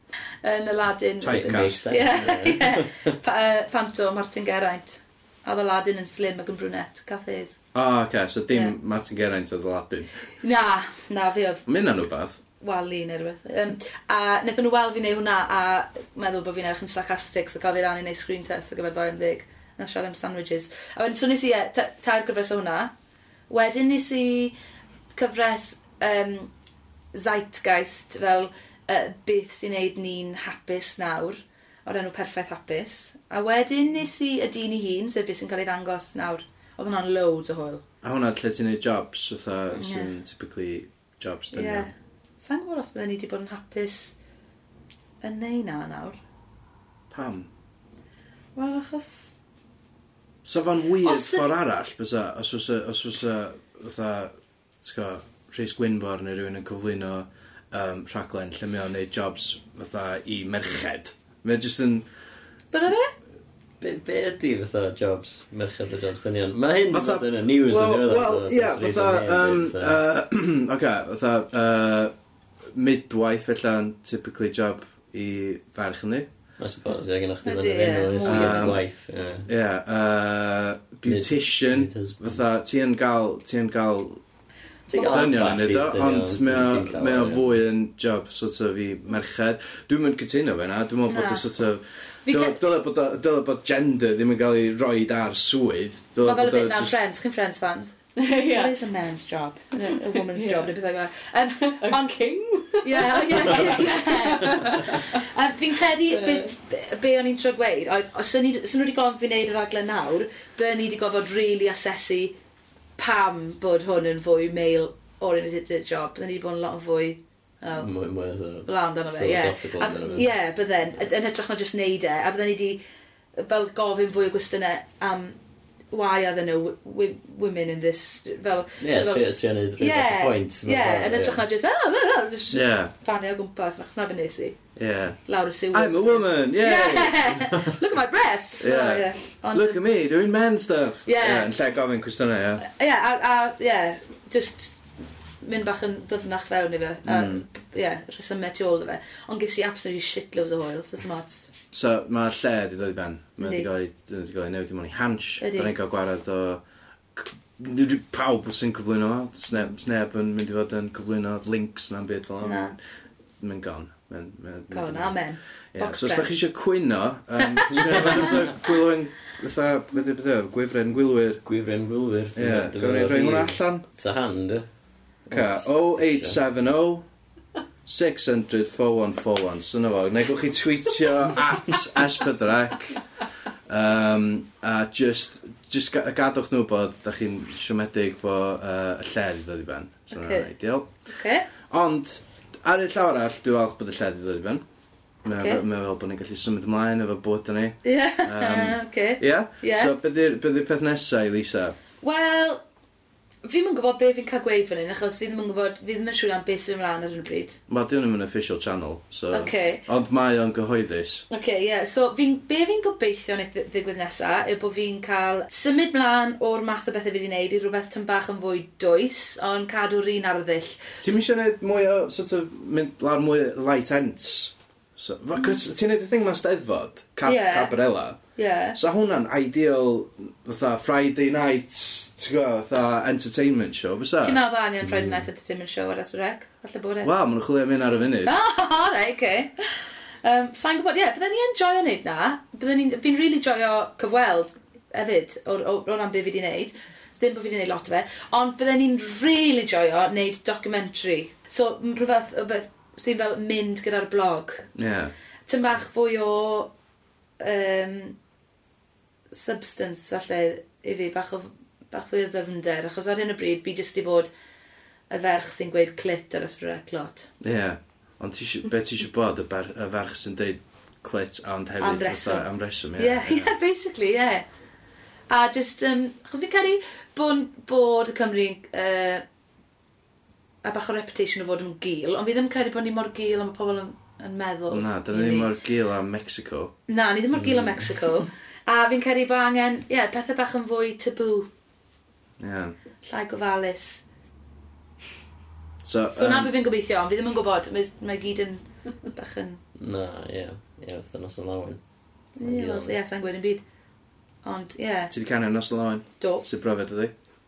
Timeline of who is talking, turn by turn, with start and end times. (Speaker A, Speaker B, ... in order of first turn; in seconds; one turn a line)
Speaker A: 0.4-7.6
Speaker B: 1.2-1.9
Speaker C: 1.2-3.1
Speaker B: 7.7-10.1
Speaker A: 10.4-11.7
Speaker B: 11.7-12.4
Speaker A: 12.6-22.9
Speaker A: 23.5-24.6
Speaker A: 25.1-26.5
Speaker A: 27.1-37.8
Speaker B: 38.0-41.9
Speaker A: 39.8-40.1
Speaker A: 41.5-44.1
Speaker A: 45.2-46.2
Speaker B: 47.1-47.5
Speaker A: 48.5-49.4
Speaker B: 50.4-62.0
Speaker A: 51.0-51.5
Speaker A: 62.7-63.1
Speaker C: 63.8-70.0
Speaker B: 66.9-72.1
Speaker B: 72.7-76.3
Speaker C: 76.6-79.5
Speaker A: 77.4-78.8
Speaker B: 78.2-78.8
Speaker B: 79.5-84.2
Speaker C: 81.0-82.4
Speaker C: 84.9-87.5
Speaker A: 84.9-85.2
Speaker B: 84.9-97.0
Speaker A: 91.1-91.4
Speaker A: 92.2-92.6
Speaker A: 96.2-102.2
Speaker D: 98.2-98.8
Speaker D: 99.9-100.7
Speaker D: 101.7-105.2
Speaker A: 102.8-112.3
Speaker D: 106.1-106.5
Speaker A: 113.0-117.9
Speaker C: 117.7-120.3
Speaker A: 118.7-122.8
Speaker A: 123.4-125.4
Speaker A: 125.9-129.3
Speaker C: 128.8-131.4
Speaker A: 129.8-134.6
Speaker B: 132.5-132.9
Speaker B: 134.8-137.6
Speaker A: 135.2-139.8
Speaker B: 138.6-142.6
Speaker A: 141.1-141.5
Speaker A: 142.6-144.8
Speaker A: 145.4-151.5
Speaker B: 147.0-147.4
Speaker B: 151.7-156.6
Speaker A: 153.4-153.7
Speaker A: 155.4-155.7
Speaker B: 157.1-162.7
Speaker A: 162.4-162.7
Speaker B: 163.4-165.2
Speaker A: 164.7-166.3
Speaker B: 165.7-171.4
Speaker A: 167.4-167.8
Speaker C: 168.0-168.3
Speaker C: 171.4-174.7
Speaker B: 172.3-173.8
Speaker B: 175.3-177.1
Speaker C: 175.3-176.4
Speaker B: 177.8-183.0
Speaker B: 183.7-190.9
Speaker A: 190.1-190.5
Speaker A: 191.1-191.5
Speaker B: 191.6-194.6
Speaker B: 195.2-201.8
Speaker A: 195.3-195.6
Speaker A: 197.8-199.9
Speaker A: 202.0-202.6
Speaker A: 203.4-207.6
Speaker B: 207.7-211.2
Speaker A: 209.3-209.8
Speaker A: 211.3-221.0
Speaker B: 221.0-228.2
Speaker A: 227.2-227.8
Speaker A: 228.3-228.8
Speaker B: 228.7-234.4
Speaker A: 234.2-237.1
Speaker B: 237.0-238.3
Speaker A: 238.2-254.7
Speaker B: 254.8-255.1
Speaker A: 255.5-256.7
Speaker A: 257.4-258.2
Speaker A: 259.3-264.3
Speaker A: 265.1-267.3
Speaker B: 267.4-273.5
Speaker A: 271.8-274.4
Speaker A: 275.3-279.2
Speaker A: 280.6-285.5
Speaker B: 284.7-286.7
Speaker A: 286.9-291.5
Speaker C: 287.4-287.9
Speaker B: 292.4-292.7
Speaker A: 293.0-294.0
Speaker B: 295.8-296.5
Speaker A: 296.1-299.6
Speaker C: 299.8-301.8
Speaker A: 302.4-303.6
Speaker C: 302.4-303.0
Speaker A: 304.4-305.1
Speaker B: 305.1-307.1
Speaker A: 306.2-306.4